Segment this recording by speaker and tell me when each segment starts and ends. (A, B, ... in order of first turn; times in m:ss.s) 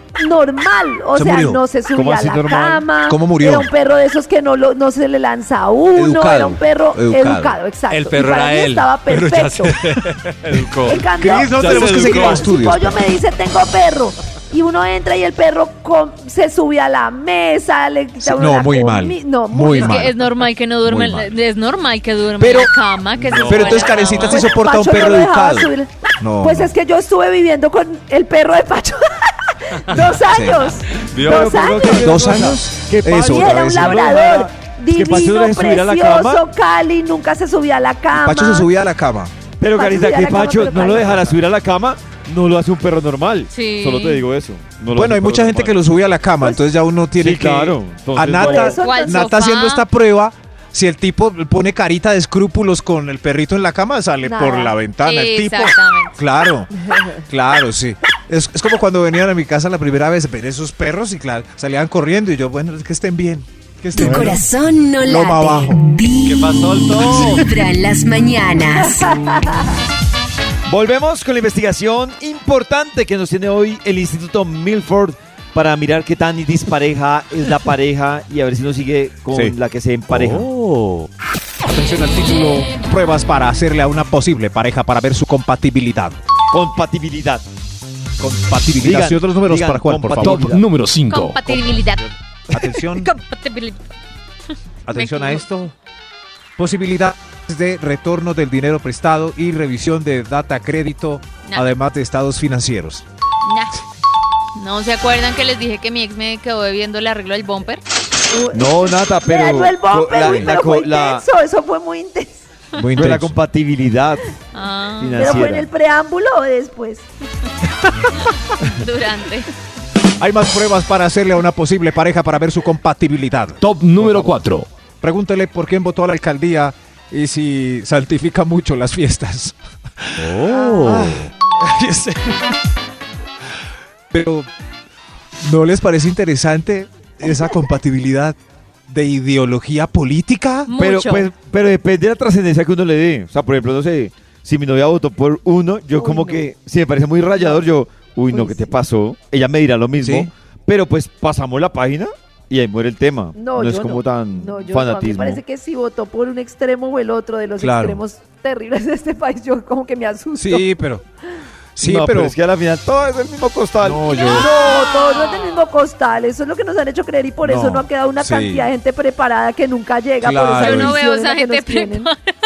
0:00.2-0:09.8 A
0:01.1-0:01.6 B
0:01.9-0:02.8 C
0:03.1-0:03.7 B
0:06.0-0:07.6 B
0:07.9-0:12.5 D
0:10.9-0:20.1 A
0:11.0-0:13.0 B
0:18.2-0:20.2 B
0:19.7-0:24.5 E
0:20.8-0:21.3 B
0:22.4-0:22.7 B
0:23.2-0:24.5 D
0:23.4-0:26.7 B
0:24.2-0:32.3 A
0:30.2-0:30.7 B
0:31.0-0:31.7 D
0:31.2-0:36.4 C
0:31.9-0:34.2 B
0:33.2-0:38.7 A
0:38.1-0:39.3 B
0:39.6-0:45.8 C
0:39.7-0:41.3 A
0:43.5-0:44.2 E
0:44.9-1:04.4 B
0:47.2-0:48.8 C
0:48.4-0:49.3 A
0:48.8-0:49.8 E
0:54.2-0:54.8 A
0:55.0-0:56.2 E
0:56.9-0:57.1 A
1:04.0-1:09.4 F
1:05.0-1:05.8 B
1:06.2-1:07.5 D
1:09.0-1:09.6 A
1:10.7-1:20.5 C
1:20.4-1:21.1 F
1:21.7-1:26.2 B
1:26.5-1:27.4 C
1:28.2-1:30.5 B
1:28.8-1:30.6 C
1:30.2-1:31.6 G
1:31.1-1:32.1 E
1:32.5-1:33.1 B
1:32.9-1:33.9 E
1:34.9-1:35.7 B
1:34.9-1:35.4 E
1:36.6-1:43.0 B
1:43.4-1:43.7 E
1:44.6-1:47.8 E
1:48.3-1:52.4 A
1:48.5-1:51.2 C
1:50.2-1:50.5 B
1:52.8-1:53.4 B
1:53.0-1:54.3 C
1:54.5-1:55.4 E
1:55.0-1:55.7 C
1:55.2-1:57.0 A
1:58.6-1:59.5 E
2:00.2-2:04.3 B
2:03.6-2:04.7 G
2:05.0-2:12.4 B
2:10.2-2:11.3 F
2:14.1-2:14.5 B
2:15.4-2:18.4 B
2:18.9-2:20.7 B
2:20.7-2:21.3 E
2:20.8-2:35.4 C
2:25.9-2:26.5 A
2:27.4-2:27.7 A
2:28.3-2:28.7 A
2:30.0-2:30.3 B
2:33.3-2:40.6 A
2:37.6-2:38.0 B
2:40.4-2:41.0 B
2:41.8-2:42.4 B
2:41.8-2:44.1 C
2:43.8-2:44.5 B
2:44.1-2:45.7 E
2:44.3-2:52.1 A
2:47.4-2:48.7 B
2:50.2-2:50.9 B
2:50.5-2:52.3 E